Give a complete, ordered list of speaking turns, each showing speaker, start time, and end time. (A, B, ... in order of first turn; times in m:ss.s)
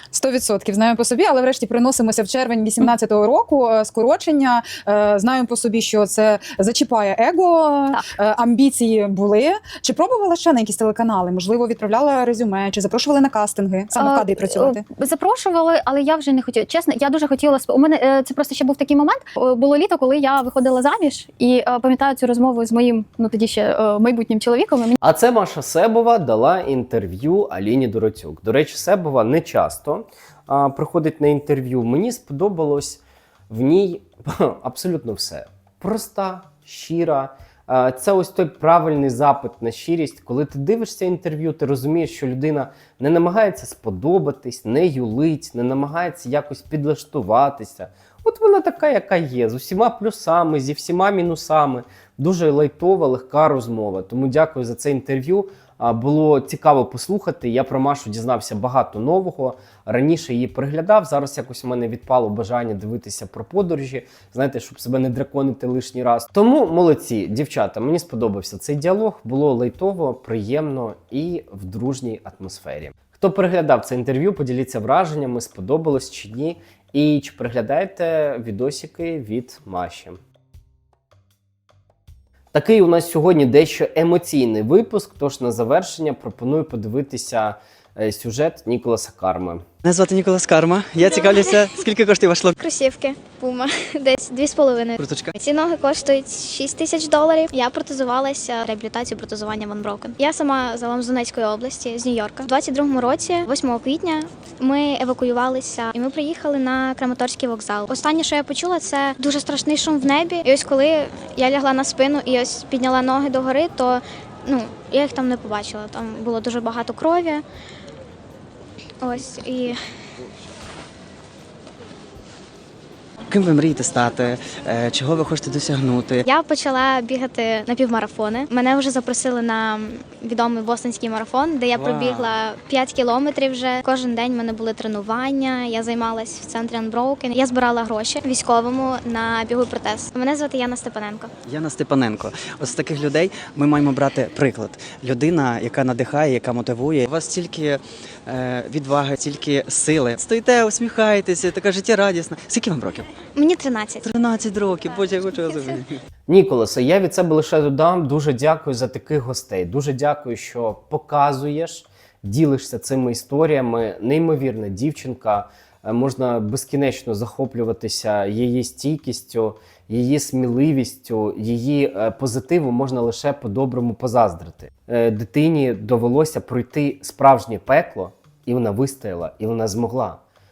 0:00.1-0:14.8 A
0:13.9-0:25.0 B
0:25.0-1:20.2 C
1:22.5-1:29.6 C
1:29.8-1:32.5 D
1:31.0-1:31.8 E
1:32.6-1:57.4 E
1:35.0-1:35.3 D
1:59.0-1:59.8 E
2:03.3-2:06.2 D
2:06.2-2:21.3 E
2:11.8-2:12.3 D
2:21.4-2:33.1 D
2:33.3-2:34.1 E
2:34.0-2:36.0 D
2:36.3-3:00.2 C